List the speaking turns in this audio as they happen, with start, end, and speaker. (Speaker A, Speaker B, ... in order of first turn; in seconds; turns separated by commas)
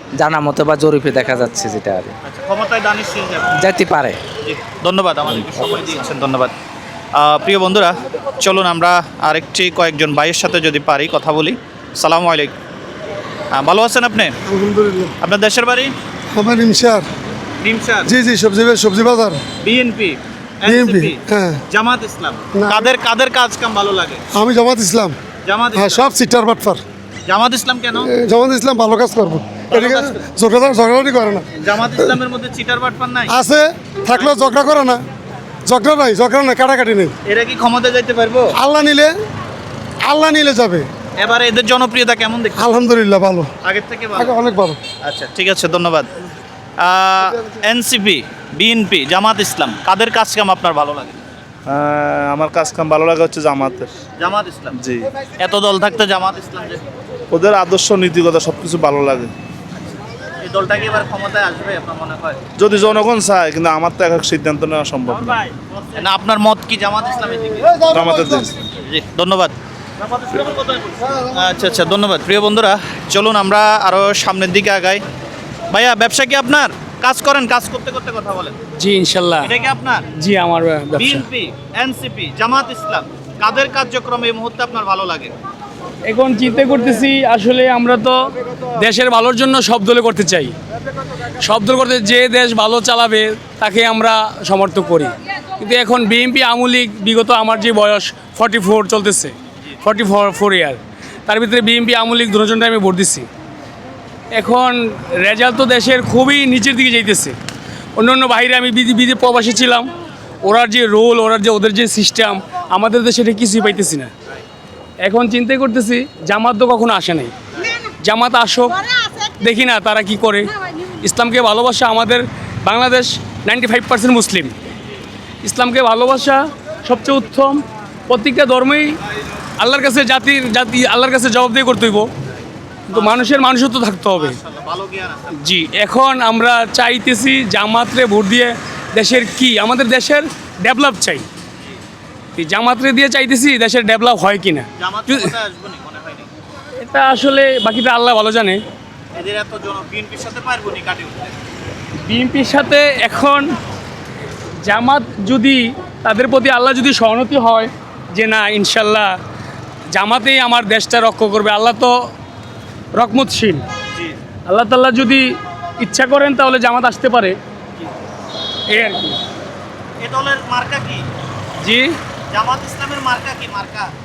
Speaker A: 0.2-2.1, Speaker B: 2.2-3.6, Speaker A: 3.6-4.2, Speaker B: 4.4-6.5, Speaker B: 7.2-12.5, Speaker B: 13.5-14.3, Speaker C: 14.5-15.1, Speaker B: 15.2-15.9, Speaker C: 16.3-17.0, Speaker B: 17.6-18.1, Speaker C: 18.1-19.4, Speaker B: 19.6-21.2, Speaker C: 20.6-21.6, Speaker B: 21.7-24.2, Speaker C: 22.5-22.9, Speaker C: 24.3-25.1, Speaker B: 25.4-26.1, Speaker C: 25.7-26.8, Speaker B: 27.3-28.1, Speaker C: 28.0-31.4, Speaker B: 29.7-30.3, Speaker B: 31.6-33.4, Speaker C: 33.3-35.0, Speaker B: 34.1-34.7, Speaker C: 35.7-37.1, Speaker B: 37.3-38.5, Speaker C: 38.6-39.1, Speaker C: 40.0-40.9, Speaker B: 41.2-42.6, Speaker C: 42.6-43.5, Speaker B: 43.6-44.4, Speaker C: 44.1-44.8, Speaker B: 45.0-46.1, Speaker B: 46.8-51.1, Speaker D: 51.7-53.9, Speaker B: 54.2-54.8, Speaker B: 55.4-56.8, Speaker D: 57.3-59.3, Speaker B: 59.8-62.4, Speaker D: 62.6-65.4, Speaker B: 65.2-67.9, Speaker D: 67.9-68.5, Speaker B: 68.8-75.0, Speaker B: 75.7-78.6, Speaker E: 78.8-79.5, Speaker B: 79.4-80.0, Speaker E: 80.2-81.2, Speaker B: 81.0-85.3, Speaker E: 86.1-88.2, Speaker E: 88.8-90.5, Speaker E: 91.4-103.3, Speaker E: 104.3-107.3, Speaker E: 108.0-109.9, Speaker E: 110.4-114.1, Speaker E: 115.0-117.3, Speaker E: 118.0-118.9, Speaker E: 119.4-120.5, Speaker E: 121.0-124.5, Speaker E: 125.4-129.0, Speaker E: 129.6-132.1, Speaker B: 132.9-133.4, Speaker E: 132.9-134.4, Speaker B: 134.2-135.3, Speaker E: 135.4-141.3, Speaker E: 142.4-145.3, Speaker B: 144.8-146.3, Speaker E: 146.8-148.6, Speaker B: 149.2-151.3, Speaker E: 152.1-153.5, Speaker E: 154.6-159.1, Speaker E: 159.9-162.1, Speaker E: 162.9-163.7, Speaker E: 164.5-167.4, Speaker E: 168.7-169.2, Speaker B: 170.0-171.1, Speaker E: 171.6-172.0, Speaker B: 172.3-173.9